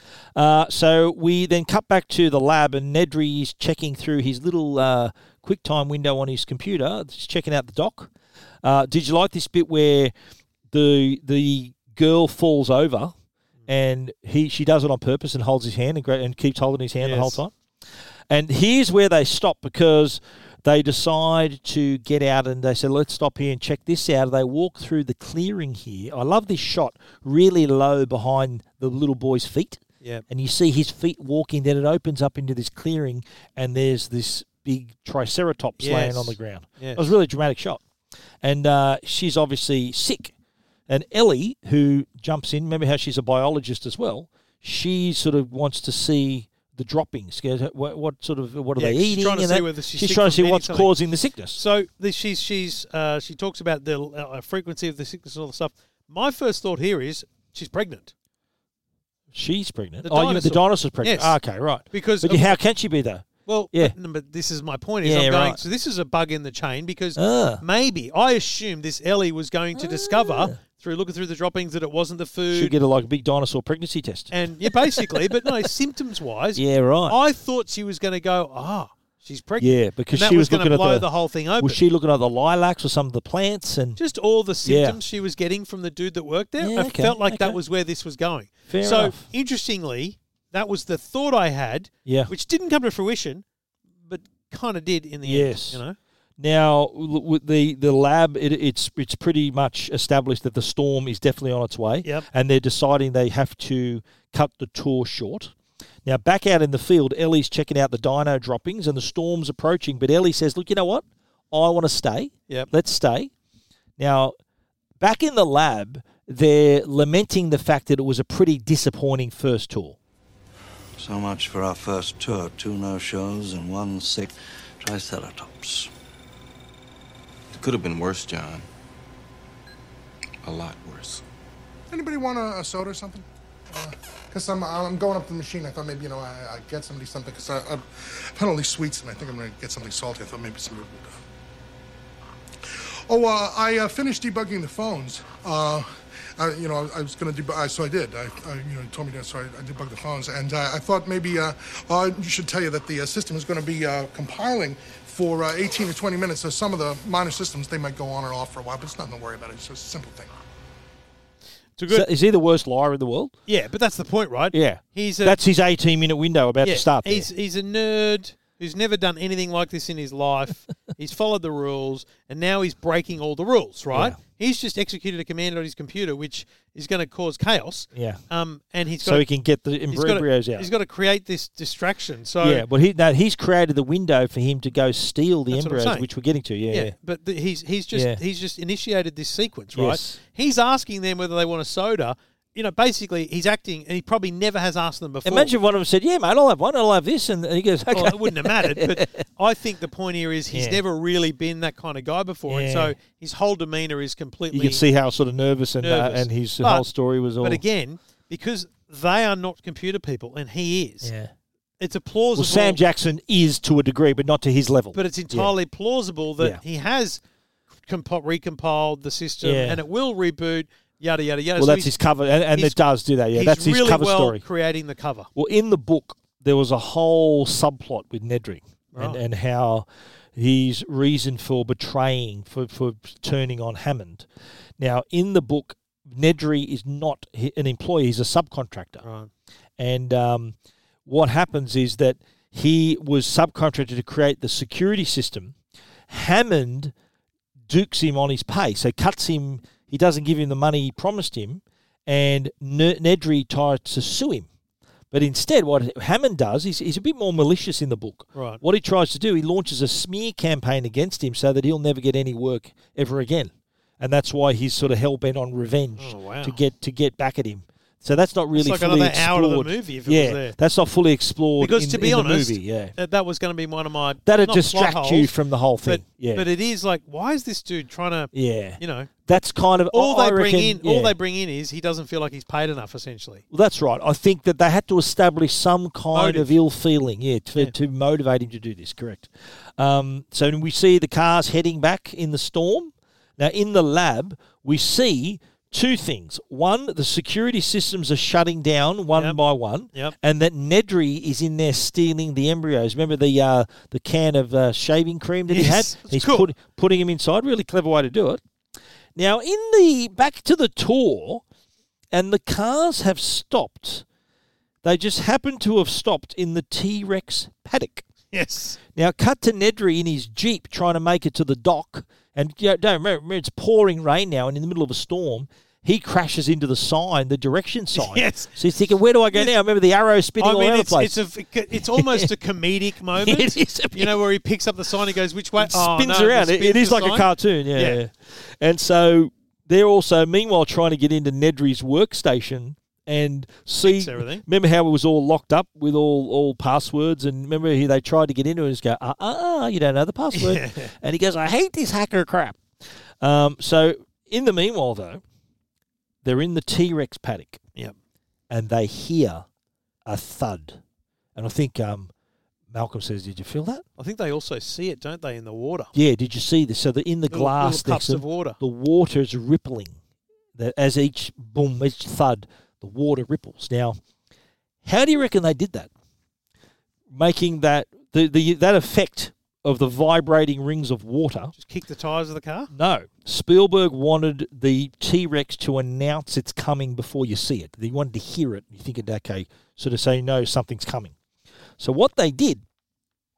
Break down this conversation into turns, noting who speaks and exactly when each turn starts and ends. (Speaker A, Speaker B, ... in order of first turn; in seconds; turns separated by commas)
Speaker A: 0.3-8.1, Speaker A: 8.6-10.1, Speaker A: 10.7-13.1, Speaker A: 13.7-17.5, Speaker B: 17.0-17.4, Speaker A: 18.3-37.8, Speaker B: 35.8-37.1, Speaker A: 38.4-40.3, Speaker A: 40.9-51.6, Speaker B: 48.8-50.9, Speaker B: 51.5-58.1, Speaker A: 59.3-64.0, Speaker B: 60.0-61.4, Speaker B: 61.9-62.6, Speaker B: 63.5-72.7, Speaker A: 65.0-65.6, Speaker A: 67.2-67.6, Speaker A: 69.8-70.5, Speaker A: 72.5-75.6, Speaker B: 74.3-81.8, Speaker A: 76.5-77.2, Speaker A: 79.6-81.1, Speaker A: 81.6-84.0, Speaker B: 84.0-93.4, Speaker A: 84.6-85.0, Speaker A: 86.6-87.6, Speaker A: 88.7-89.3, Speaker A: 92.0-92.3, Speaker B: 94.0-96.0, Speaker A: 95.2-95.8, Speaker A: 96.4-105.5, Speaker A: 106.0-113.3, Speaker A: 114.0-114.3, Speaker A: 115.0-120.0, Speaker C: 121.0-125.9, Speaker D: 127.5-128.7, Speaker D: 130.4-131.2, Speaker E: 131.9-141.2, Speaker E: 143.1-160.3, Speaker B: 161.8-162.1, Speaker A: 161.9-163.3, Speaker B: 163.5-165.4, Speaker A: 164.5-167.3, Speaker B: 166.6-179.2, Speaker A: 173.9-174.2, Speaker A: 177.9-178.2, Speaker A: 179.0-180.7, Speaker B: 179.9-182.7, Speaker A: 182.4-186.9, Speaker B: 185.5-186.1, Speaker B: 186.7-195.5, Speaker A: 187.9-188.2, Speaker A: 189.7-190.2, Speaker A: 195.2-199.2, Speaker B: 197.9-204.8, Speaker A: 200.5-200.8, Speaker A: 202.5-202.9, Speaker A: 204.5-207.6, Speaker B: 205.8-206.9, Speaker B: 207.4-211.1, Speaker A: 211.0-211.3, Speaker B: 211.8-212.8, Speaker A: 212.3-215.6, Speaker B: 214.9-217.2, Speaker B: 217.9-221.9, Speaker A: 219.4-219.8, Speaker A: 221.6-224.4, Speaker B: 222.5-222.8, Speaker B: 223.3-225.3, Speaker A: 225.3-234.3, Speaker B: 228.9-229.2, Speaker A: 234.8-239.1, Speaker B: 239.0-239.3, Speaker A: 239.8-245.6, Speaker A: 246.1-246.9, Speaker A: 247.7-254.5, Speaker A: 255.1-272.9, Speaker B: 258.3-258.6, Speaker B: 266.0-266.6, Speaker B: 268.6-270.6, Speaker B: 271.6-275.3, Speaker A: 274.3-276.4, Speaker B: 275.9-279.4, Speaker A: 278.3-281.2, Speaker B: 279.9-283.4, Speaker A: 283.5-308.4, Speaker B: 286.1-286.6, Speaker B: 305.5-306.5, Speaker A: 309.2-311.4, Speaker A: 312.1-314.1, Speaker A: 314.8-318.1, Speaker B: 318.3-318.8, Speaker A: 318.9-331.2, Speaker B: 327.9-328.5, Speaker B: 330.4-338.0, Speaker A: 331.7-332.3, Speaker A: 333.1-334.2, Speaker A: 335.6-352.6, Speaker B: 343.8-344.4, Speaker B: 350.3-350.9, Speaker A: 353.2-355.2, Speaker A: 356.2-357.6, Speaker A: 358.5-359.4, Speaker A: 360.1-360.8, Speaker A: 361.4-362.1, Speaker A: 362.7-363.8, Speaker B: 364.0-365.9, Speaker A: 365.9-370.0, Speaker B: 367.3-368.6, Speaker A: 370.6-374.0, Speaker A: 374.8-375.9, Speaker A: 377.1-381.5, Speaker B: 381.6-382.7, Speaker A: 382.7-391.1, Speaker A: 391.8-392.6